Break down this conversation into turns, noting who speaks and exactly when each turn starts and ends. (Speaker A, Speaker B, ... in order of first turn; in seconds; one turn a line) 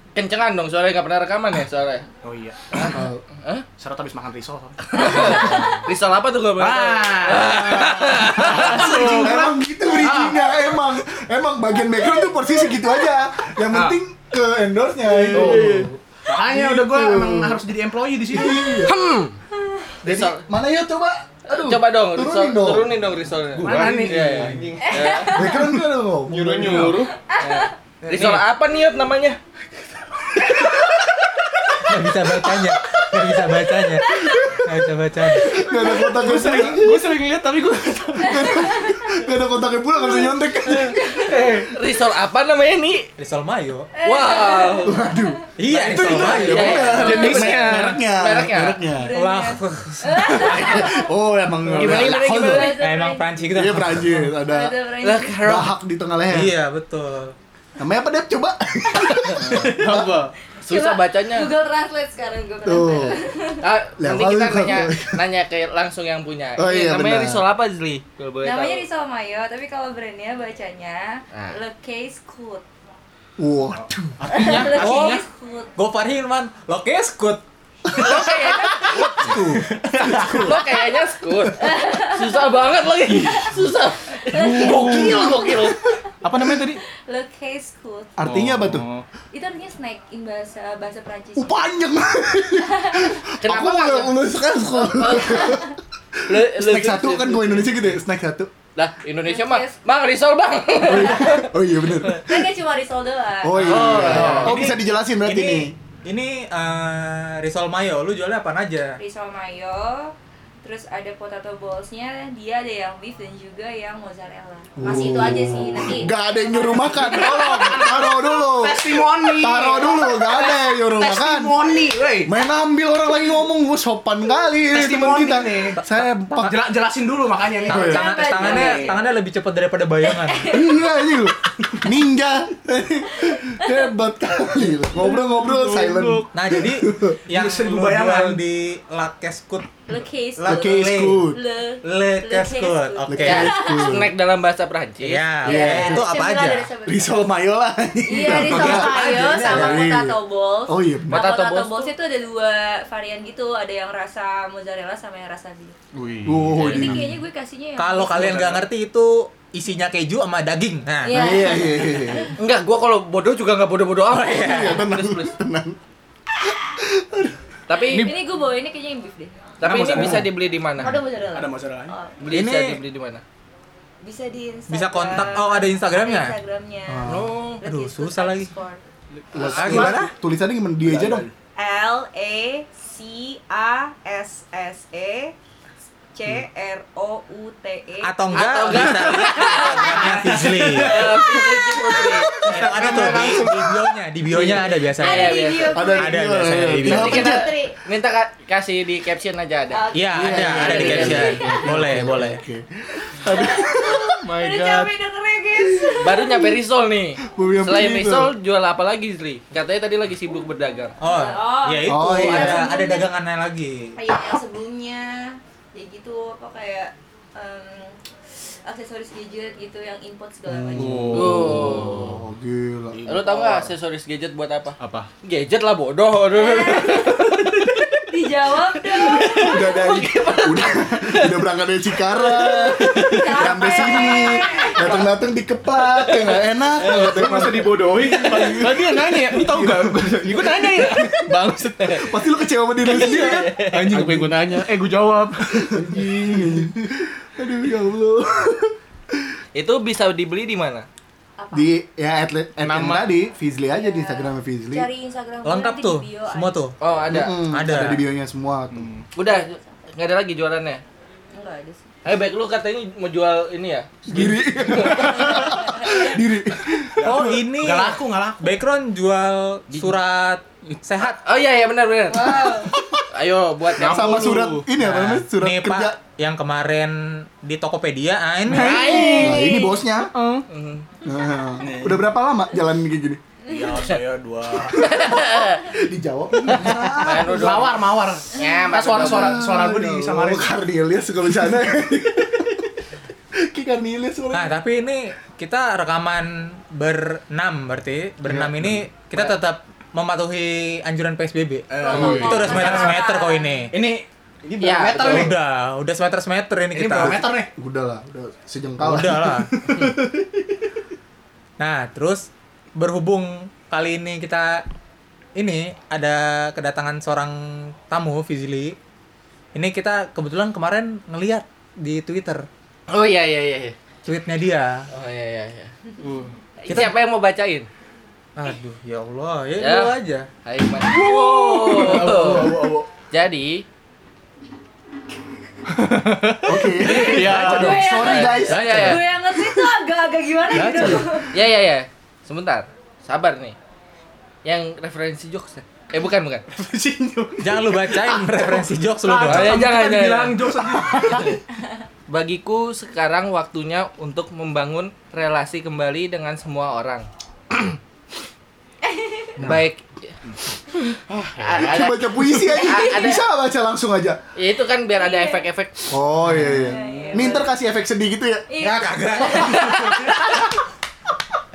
Speaker A: 0.1-2.1
Speaker B: 2.2-2.9
Speaker A: 2.7-3.6
Speaker C: 2.9-3.2
Speaker B: 3.8-5.7
Speaker A: 4.9-8.9
Speaker D: 5.1-5.8
Speaker B: 6.6-10.4
Speaker C: 8.5-15.9
Speaker E: 8.8-9.4
Speaker A: 13.7-14.0
Speaker A: 15.3-15.9
Speaker B: 15.3-15.7
Speaker B: 16.3-18.8
Speaker C: 16.5-17.6
Speaker C: 18.3-19.0
Speaker A: 18.8-19.4
Speaker A: 20.0-20.4
Speaker C: 20.0-22.9
Speaker A: 21.5-25.5
Speaker E: 23.6-25.3
Speaker B: 23.6-24.4
Speaker C: 23.6-24.7
Speaker D: 24.8-25.7
Speaker C: 25.3-27.0
Speaker E: 26.3-27.2
Speaker D: 27.2-27.7
Speaker A: 27.4-29.4
Speaker F: 28.0-28.4
Speaker C: 30.4-31.0
Speaker F: 31.8-35.6
Speaker D: 34.1-34.5
Speaker C: 34.1-34.5
Speaker C: 35.4-37.1
Speaker D: 35.7-36.1
Speaker E: 36.0-38.5
Speaker C: 38.2-41.4
Speaker D: 38.4-39.1
Speaker D: 40.8-41.4
Speaker E: 41.1-41.7
Speaker A: 41.7-43.1
Speaker F: 43.2-43.9
Speaker D: 44.0-45.4
Speaker A: 44.0-45.1
Speaker C: 44.8-49.2
Speaker F: 45.6-47.4
Speaker A: 45.9-48.8
Speaker B: 46.9-47.5
Speaker D: 47.1-47.3
Speaker E: 47.5-48.0
Speaker D: 48.9-51.1
Speaker F: 49.1-50.4
Speaker C: 50.3-52.8
Speaker E: 51.7-52.0
Speaker A: 51.8-52.7
Speaker D: 52.0-53.4
Speaker F: 52.7-54.1
Speaker C: 53.4-54.8
Speaker D: 54.1-55.6
Speaker A: 55.0-55.7
Speaker C: 55.4-56.5
Speaker F: 56.3-57.4
Speaker C: 57.8-60.2
Speaker E: 59.4-60.3
Speaker A: 60.6-61.5
Speaker D: 60.7-63.6
Speaker C: 62.6-63.2
Speaker A: 63.6-68.8
Speaker C: 64.0-65.2
Speaker C: 66.6-67.4
Speaker D: 68.4-72.7
Speaker A: 71.3-71.6
Speaker C: 73.4-74.6
Speaker E: 74.2-75.2
Speaker D: 74.3-75.7
Speaker F: 74.7-75.2
Speaker F: 75.8-77.4
Speaker C: 77.9-78.1
Speaker D: 77.9-79.4
Speaker A: 78.0-79.4
Speaker C: 78.9-80.6
Speaker B: 80.2-80.5
Speaker A: 80.3-85.8
Speaker D: 81.6-82.5
Speaker D: 83.2-83.6
Speaker E: 84.3-85.3
Speaker D: 84.3-88.3
Speaker E: 86.2-86.8
Speaker C: 88.2-88.9
Speaker E: 88.2-89.1
Speaker D: 89.3-91.6
Speaker C: 91.4-95.8
Speaker D: 92.6-93.2
Speaker A: 93.4-94.2
Speaker A: 94.9-95.6
Speaker D: 95.0-95.7
Speaker A: 96.3-97.7
Speaker C: 96.3-98.5
Speaker A: 98.8-101.5
Speaker D: 99.3-99.7
Speaker C: 100.8-102.5
Speaker D: 100.9-101.2
Speaker D: 102.1-104.4
Speaker C: 103.4-105.7
Speaker A: 103.6-104.6
Speaker B: 104.0-104.5
Speaker F: 104.1-109.0
Speaker D: 109.0-118.1
Speaker C: 114.8-121.6
Speaker B: 117.0-122.3
Speaker D: 119.3-120.4
Speaker C: 122.2-126.6
Speaker B: 124.7-128.9
Speaker F: 127.7-130.6
Speaker C: 127.7-128.1
Speaker D: 127.7-129.1
Speaker D: 130.0-130.9
Speaker C: 130.5-137.2
Speaker D: 133.2-133.9
Speaker E: 135.0-136.3
Speaker F: 136.3-139.7
Speaker B: 137.3-138.4
Speaker D: 139.9-144.1
Speaker C: 140.4-141.4
Speaker F: 140.4-141.3
Speaker F: 141.8-143.5
Speaker C: 143.1-144.1
Speaker A: 143.2-145.3
Speaker F: 145.0-146.7
Speaker D: 145.4-147.4
Speaker C: 145.5-146.1
Speaker C: 146.9-151.2
Speaker D: 148.1-155.8
Speaker F: 148.2-150.0
Speaker A: 151.1-151.9
Speaker E: 155.9-157.0
Speaker C: 156.2-157.2
Speaker D: 156.6-158.6
Speaker F: 157.8-161.6
Speaker D: 161.1-162.3
Speaker C: 161.1-162.3
Speaker A: 162.4-165.4
Speaker F: 164.1-164.8
Speaker C: 164.3-165.8
Speaker C: 166.8-167.4
Speaker A: 167.7-168.2
Speaker E: 167.9-168.2
Speaker D: 167.9-169.6
Speaker A: 169.6-171.0
Speaker E: 169.7-170.2
Speaker B: 169.8-170.2
Speaker D: 170.8-172.1
Speaker B: 171.0-172.0
Speaker A: 172.2-173.2
Speaker F: 172.3-172.8
Speaker D: 174.0-178.8
Speaker F: 174.7-176.3
Speaker C: 176.9-177.3
Speaker A: 177.1-177.6
Speaker F: 177.6-178.5
Speaker C: 179.3-181.3
Speaker A: 179.4-179.9
Speaker F: 179.4-180.1
Speaker B: 180.8-181.3
Speaker D: 181.6-185.3
Speaker D: 186.1-190.3
Speaker F: 188.0-191.2
Speaker A: 188.3-193.0
Speaker B: 190.2-191.1
Speaker D: 190.8-192.0
Speaker C: 192.0-193.3
Speaker F: 192.5-197.4
Speaker E: 192.5-193.7
Speaker A: 194.3-195.9
Speaker D: 194.8-197.8
Speaker C: 195.7-197.5
Speaker A: 196.8-199.9
Speaker D: 199.7-201.7
Speaker F: 199.9-202.4
Speaker C: 200.1-204.3
Speaker A: 200.6-201.3
Speaker D: 203.3-206.5
Speaker E: 204.3-204.9
Speaker C: 205.6-206.2
Speaker A: 206.0-210.9
Speaker C: 207.3-208.3
Speaker D: 211.0-213.1
Speaker F: 211.0-213.9
Speaker C: 211.9-212.7
Speaker D: 214.0-221.4
Speaker C: 220.5-223.1
Speaker E: 220.7-222.1
Speaker A: 221.1-222.2
Speaker E: 222.9-223.7
Speaker A: 223.1-227.6
Speaker E: 224.8-225.1
Speaker D: 226.3-227.3
Speaker D: 228.1-230.7
Speaker A: 228.9-231.5
Speaker C: 229.1-241.3
Speaker A: 232.0-234.2
Speaker D: 232.3-235.2
Speaker A: 235.8-236.2
Speaker E: 236.8-242.1
Speaker B: 239.6-240.3
Speaker C: 242.0-243.5
Speaker A: 242.8-244.1
Speaker E: 242.9-246.1
Speaker B: 243.9-244.3
Speaker C: 245.7-249.2
Speaker A: 249.6-250.9
Speaker D: 251.4-251.7
Speaker C: 251.5-254.9
Speaker E: 252.6-253.2
Speaker D: 253.7-256.7
Speaker F: 255.4-256.8
Speaker A: 256.8-257.5
Speaker C: 257.1-258.9
Speaker F: 257.3-258.0
Speaker E: 258.7-259.1
Speaker A: 259.1-260.8
Speaker D: 259.2-259.7
Speaker D: 261.3-261.9
Speaker A: 262.0-265.4
Speaker C: 264.1-267.5
Speaker E: 264.1-265.3
Speaker D: 264.9-266.2
Speaker F: 267.0-271.2
Speaker B: 267.5-268.5
Speaker A: 271.0-274.3
Speaker D: 272.1-272.8
Speaker C: 272.4-272.8
Speaker E: 273.8-274.7
Speaker C: 273.8-276.0
Speaker F: 274.8-278.9
Speaker C: 278.5-280.1
Speaker E: 278.5-279.5
Speaker A: 278.6-279.8
Speaker D: 279.2-279.5
Speaker E: 280.1-280.5
Speaker A: 280.5-280.9
Speaker C: 281.0-283.2
Speaker B: 281.6-282.1
Speaker D: 283.5-283.9
Speaker B: 283.5-284.9
Speaker C: 284.6-287.6
Speaker A: 284.7-285.6
Speaker A: 286.6-287.7
Speaker B: 286.7-290.5
Speaker A: 288.3-289.4
Speaker C: 289.0-292.7
Speaker C: 293.4-294.6
Speaker F: 294.3-303.7
Speaker C: 298.3-298.8
Speaker B: 301.7-303.0
Speaker D: 301.8-303.7
Speaker E: 301.9-302.5
Speaker B: 303.7-305.4
Speaker A: 304.6-305.3
Speaker F: 305.0-307.2
Speaker B: 306.7-307.5
Speaker C: 307.0-310.1
Speaker F: 308.8-309.5
Speaker F: 311.6-314.6
Speaker F: 315.4-318.8
Speaker F: 319.5-322.5
Speaker A: 322.9-323.8
Speaker F: 324.1-324.9
Speaker A: 324.9-325.7
Speaker E: 326.0-326.4
Speaker D: 326.6-326.9
Speaker A: 326.6-327.7
Speaker F: 326.7-326.9
Speaker F: 328.4-330.3
Speaker A: 329.6-329.9
Speaker A: 330.4-332.6
Speaker D: 331.0-331.3
Speaker B: 331.2-332.9
Speaker C: 331.9-332.8
Speaker A: 333.1-333.6
Speaker E: 335.7-337.8
Speaker C: 336.4-339.1
Speaker A: 336.8-339.0
Speaker D: 336.8-341.4
Speaker B: 337.2-337.6
Speaker C: 340.6-341.1
Speaker F: 340.6-341.1
Speaker B: 340.6-341.1
Speaker A: 341.3-343.6
Speaker A: 344.4-346.4
Speaker B: 346.5-351.3
Speaker F: 347.4-349.6
Speaker A: 349.3-351.3
Speaker C: 350.7-351.2
Speaker A: 352.1-357.8
Speaker D: 358.8-359.5
Speaker A: 359.4-360.1
Speaker E: 361.1-361.7
Speaker A: 361.4-363.2
Speaker C: 361.6-364.2
Speaker A: 364.4-365.9
Speaker D: 365.0-365.4
Speaker C: 365.9-368.5
Speaker D: 366.4-367.5
Speaker D: 368.5-370.5
Speaker F: 368.6-370.4
Speaker A: 369.4-370.0